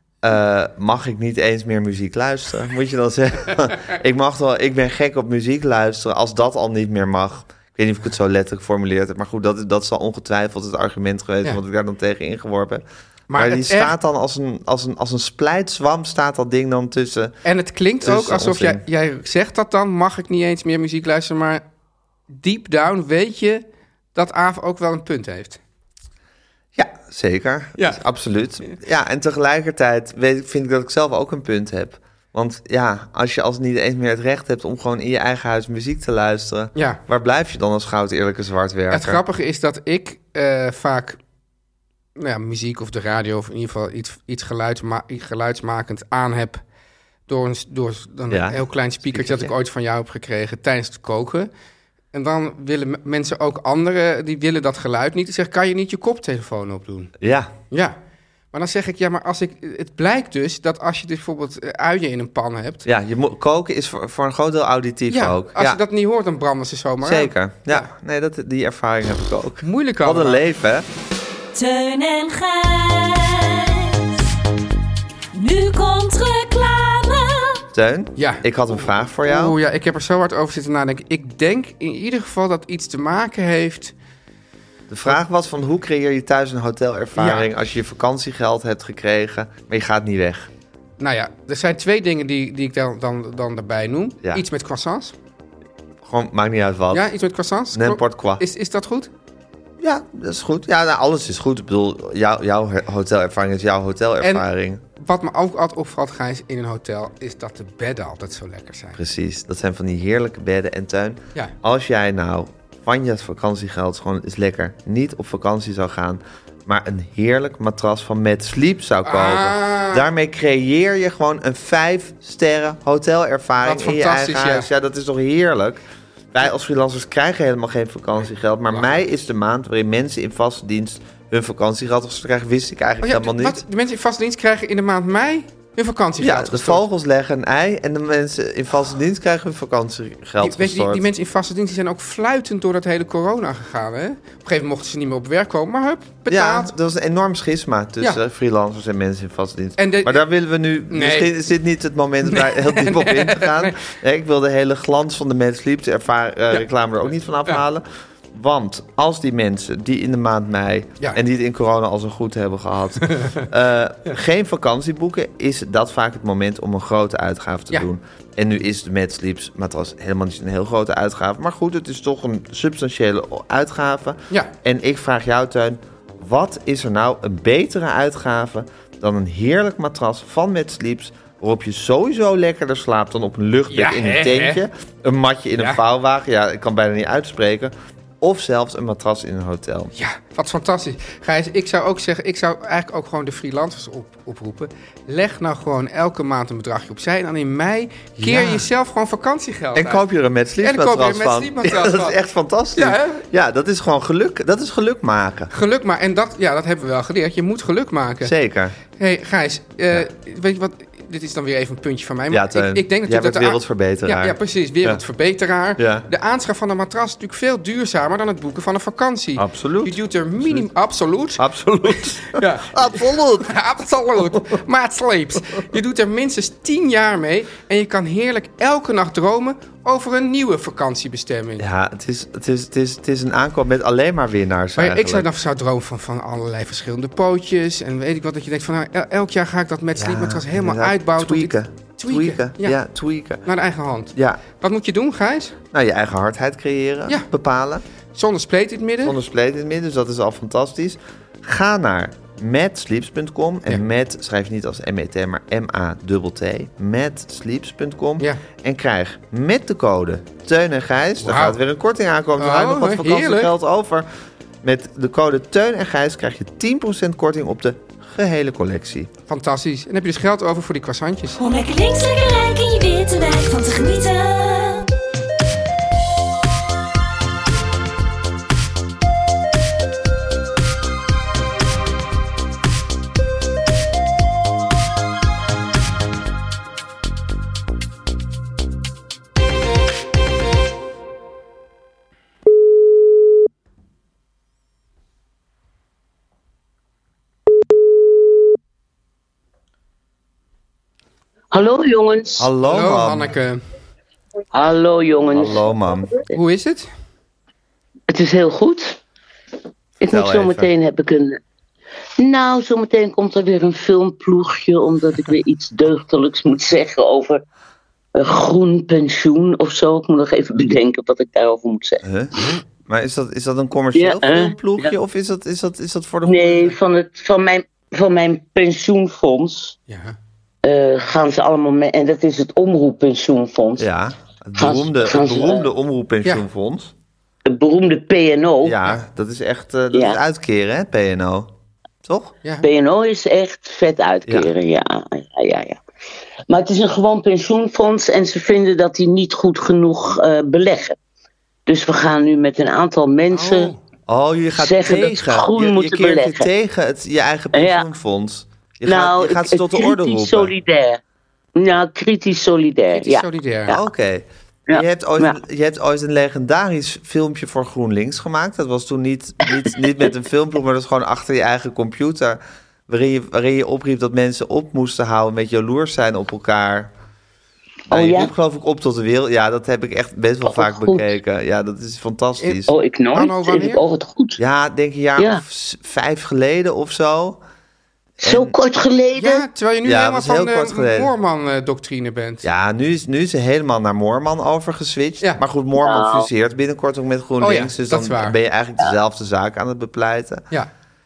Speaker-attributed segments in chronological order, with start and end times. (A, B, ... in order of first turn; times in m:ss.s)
0:00.2-0:12.8 A
0:13.3-0:13.9 B
0:13.3-0:17.4 A
0:17.4-0:21.6 B
0:18.0-0:18.8 A
0:22.3-0:25.6 B
0:26.7-0:39.2 A
0:27.8-0:28.0 B
0:36.7-0:37.0 B
0:38.9-0:41.2 B
0:42.2-0:46.6 B
0:47.3-0:51.5 B
0:48.3-0:49.5 A
0:52.1-0:57.1 B
0:57.2-0:57.5 A
0:57.7-0:58.0 B
0:58.5-1:02.8 B
1:02.8-1:05.8 A
1:05.1-1:07.9 B
1:07.0-1:10.8 A
1:09.6-1:10.4 B
1:11.5-1:14.2 C
1:15.3-1:17.6 C
1:17.7-1:19.6 A
1:18.2-1:18.4 B
1:19.2-1:23.9 B
1:24.9-1:30.5 A
1:27.2-1:27.5 B
1:31.0-1:35.1 B
1:36.0-1:37.1 A
1:36.9-1:39.1 B
1:37.7-1:38.4 A
1:39.8-1:44.8 A
1:44.2-1:49.0 B
1:49.0-2:13.6 A
1:59.0-2:00.0 B
2:03.6-2:04.7 B
2:13.0-2:16.8 B
2:16.2-2:21.0 A
2:20.4-2:26.7 B
2:26.3-3:09.9 A
2:29.8-2:30.2 B
2:30.9-2:31.3 B
2:32.2-2:33.8 B
2:43.1-2:43.4 B
3:03.7-3:04.6 B
3:09.9-3:20.0 B
3:18.2-3:18.6 A
3:19.7-3:25.5 A
3:20.6-3:22.2 B
3:22.7-3:23.2 B
3:25.5-3:28.3 B
3:28.2-3:28.8 A
3:29.0-3:51.7 B
3:32.3-3:35.0 A
3:35.8-3:36.1 A
3:39.4-3:40.7 A
3:41.4-3:43.5 A
3:51.6-3:55.3 A
3:54.8-4:02.8 B
4:00.0-4:03.4 A
4:03.4-4:05.6 B
4:04.1-4:04.4 A
4:05.7-4:07.8 A
4:08.1-4:09.2 B
4:09.0-4:24.0 A
4:21.2-4:21.6 B
4:22.4-4:23.5 B
4:24.6-4:29.1 A
4:29.3-4:31.4 B
4:31.4-4:34.9 C
5:01.5-5:02.5 D
5:02.4-5:03.3 A
5:02.6-5:03.6 B
5:04.5-5:05.7 D
5:05.3-5:06.2 A
5:06.3-5:06.9 B
5:08.1-5:09.0 D
5:10.0-5:11.4 D
5:10.1-5:10.7 A
5:12.2-5:17.4 D
5:18.1-5:22.0 D
5:22.0-5:26.6 A
5:23.9-5:24.9 D
5:26.2-5:29.8 D
5:29.9-5:30.2 B
5:30.6-5:33.9 D
5:33.8-5:36.9 A
5:34.6-5:35.7 D
5:37.5-5:38.8 D
5:38.6-5:41.5 A
5:39.9-5:40.2 D
5:42.0-5:42.3 A
5:42.6-5:45.8 D
5:46.5-5:51.0 D
5:51.6-5:53.7 D
5:53.3-5:53.8 B
5:54.1-6:00.5 A
5:54.6-5:56.5 D
5:57.5-5:57.8 D
5:58.8-6:01.0 D
6:01.6-6:03.8 D
6:02.9-6:03.8 B
6:03.7-6:16.9 A
6:04.7-6:05.4 D
6:17.9-6:18.3 D
6:17.9-6:22.7 A
6:20.4-6:21.1 D
6:22.6-6:24.4 D
6:23.1-6:23.8 B
6:24.4-6:27.4 A
6:25.2-6:25.4 D
6:28.2-6:28.5 A
6:28.2-6:29.4 D
6:29.2-6:32.4 B
6:29.8-6:31.1 A
6:32.4-6:40.4 A
6:35.8-6:36.3 D
6:37.4-6:38.4 B